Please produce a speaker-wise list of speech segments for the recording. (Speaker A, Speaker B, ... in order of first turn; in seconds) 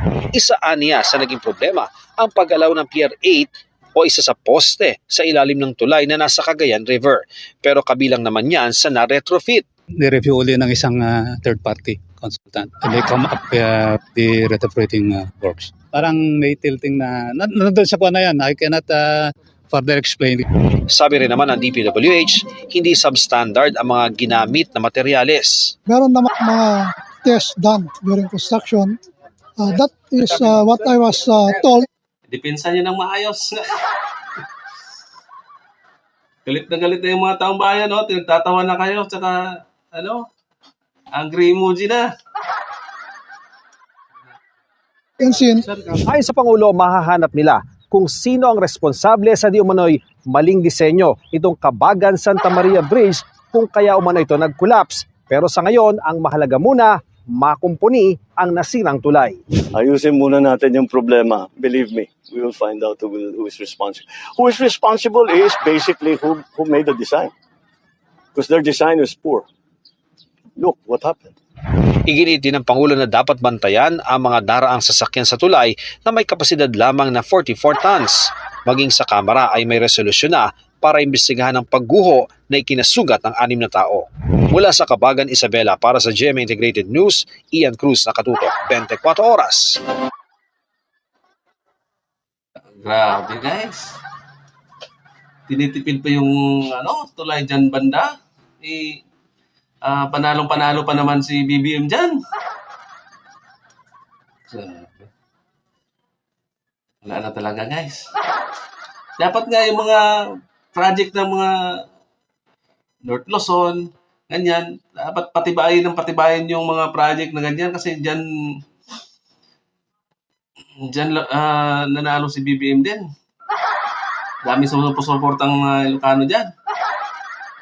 Speaker A: 0.3-9.7, 20.9-25.8, 46.1-59.4, 72.1-89.8
Speaker B: 10.0-20.5
Speaker C: 25.9-29.0, 29.6-31.9, 45.2-46.0
Speaker D: 32.3-33.6, 36.5-40.3, 41.1-42.1, 92.7-94.0, 95.5-99.0, 99.8-102.2, 104.5-105.1, 107.0-108.1, 109.2-110.1, 110.7-111.8, 113.0-118.2, 120.8-123.0, 124.4-126.5
Speaker E: 59.7-67.3, 68.3-69.5, 70.6-71.3